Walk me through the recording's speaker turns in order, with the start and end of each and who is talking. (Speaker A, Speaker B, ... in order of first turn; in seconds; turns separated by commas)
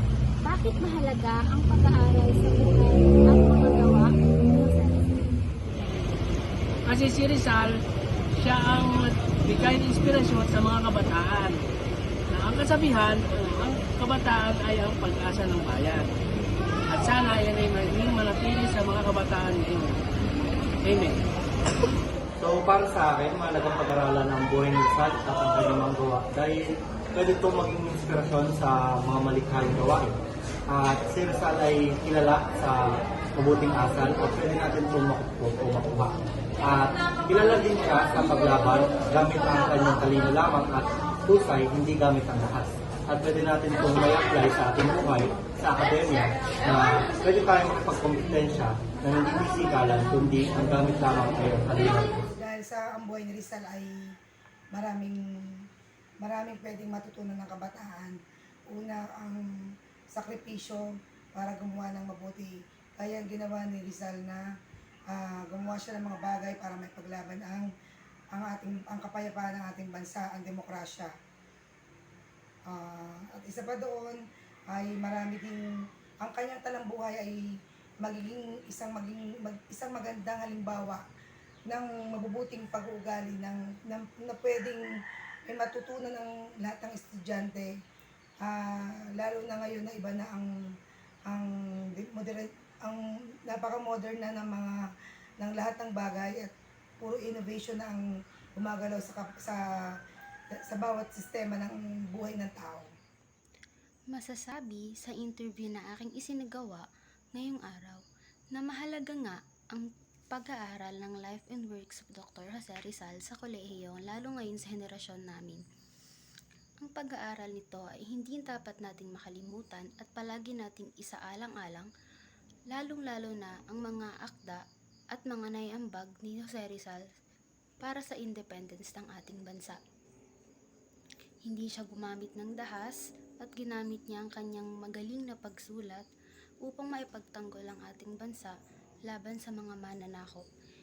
Speaker A: 0.5-5.1, Speaker B: 0.5-2.6, Speaker B: 3.3-3.9, Speaker C: 6.9-7.7, Speaker C: 8.4-11.6, Speaker C: 12.3-16.0, Speaker C: 16.9-20.0, Speaker C: 20.8-21.2, Speaker D: 22.4-30.2, Speaker D: 30.7-52.2, Speaker E: 52.4-54.1, Speaker E: 54.7-55.6, Speaker E: 56.2-58.2, Speaker E: 58.7-59.4, Speaker E: 60.1-60.8, Speaker E: 61.4-64.4, Speaker E: 65.1-67.7, Speaker E: 68.3-71.1, Speaker E: 72.7-74.2, Speaker E: 74.7-75.6, Speaker E: 76.2-77.4, Speaker E: 78.0-81.0, Speaker E: 81.7-84.8, Speaker E: 85.5-87.7, Speaker E: 88.4-90.5, Speaker E: 91.3-94.8, Speaker E: 95.4-96.5, Speaker E: 97.0-98.0, Speaker E: 98.6-99.6, Speaker E: 100.7-102.9, Speaker B: 104.1-106.8, Speaker B: 107.3-108.0, Speaker B: 108.5-115.6, Speaker B: 116.8-121.9, Speaker B: 122.7-124.6, Speaker B: 125.1-127.0, Speaker B: 127.8-129.8, Speaker B: 131.5-136.1, Speaker B: 136.6-138.6, Speaker B: 139.1-140.4